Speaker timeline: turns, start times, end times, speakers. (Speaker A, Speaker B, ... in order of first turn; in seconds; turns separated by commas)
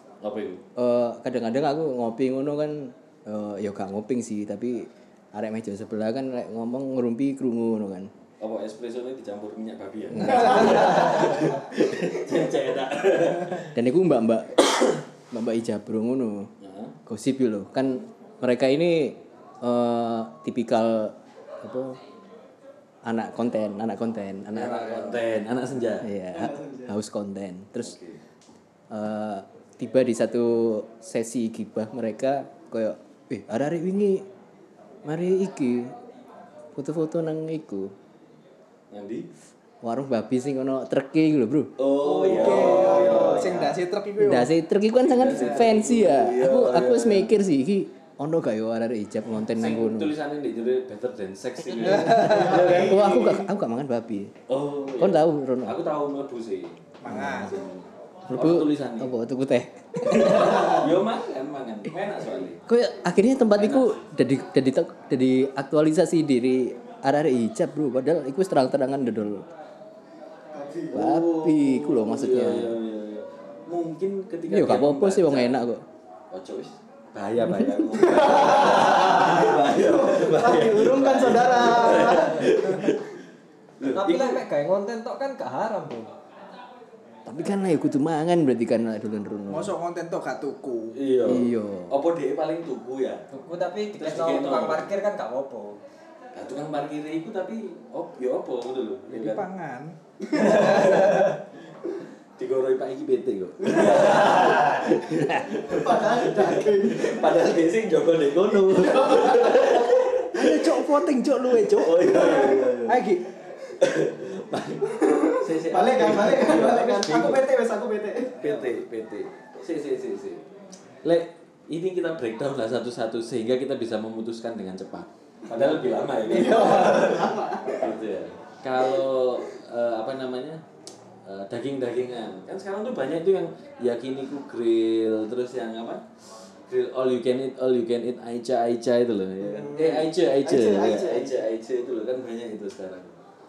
Speaker A: 0.2-0.6, Speaker B: 0.8-8.1, Speaker A: 8.4-13.7, Speaker B: 10.2-10.6, Speaker B: 13.7-16.5, Speaker A: 16.6-17.0, Speaker B: 17.1-22.0, Speaker B: 23.0-25.2, Speaker A: 24.5-26.1, Speaker B: 26.0-28.0, Speaker C: 26.3-26.9, Speaker A: 27.8-28.2, Speaker B: 28.9-34.2, Speaker B: 35.0-36.0, Speaker B: 36.8-37.9, Speaker A: 38.9-39.3, Speaker B: 39.8-41.7, Speaker A: 41.8-43.6, Speaker C: 42.0-43.7, Speaker D: 42.2-44.5, Speaker B: 44.2-50.1, Speaker A: 45.0-47.3, Speaker A: 49.6-53.3, Speaker B: 52.0-54.3, Speaker D: 52.1-52.4, Speaker C: 52.2-53.4, Speaker A: 54.5-59.1, Speaker B: 55.0-55.8, Speaker D: 57.0-57.6, Speaker B: 57.1-57.6, Speaker B: 58.3-60.8, Speaker A: 60.0-62.6, Speaker B: 62.7-69.5, Speaker A: 63.5-64.0, Speaker C: 70.5-71.0, Speaker A: 70.9-75.6, Speaker B: 70.9-72.8, Speaker B: 74.5-75.8, Speaker A: 76.3-83.2, Speaker C: 77.9-82.9, Speaker A: 83.8-84.4, Speaker E: 83.8-86.1, Speaker B: 87.2-89.7, Speaker D: 89.5-91.0, Speaker A: 91.0-93.2, Speaker B: 91.2-92.0, Speaker E: 93.3-95.8, Speaker A: 94.0-94.9, Speaker A: 96.3-99.5, Speaker D: 99.1-100.9, Speaker A: 100.3-101.5, Speaker C: 100.4-100.8, Speaker A: 102.4-110.8, Speaker C: 103.6-104.7, Speaker C: 105.5-107.5, Speaker C: 108.8-109.8, Speaker D: 110.3-113.3, Speaker A: 111.5-113.0, Speaker A: 113.8-117.5, Speaker C: 114.8-118.6, Speaker A: 118.4-120.4, Speaker A: 121.0-130.6, Speaker C: 125.5-127.9, Speaker A: 131.2-136.0, Speaker A: 136.7-143.2, Speaker C: 139.4-141.4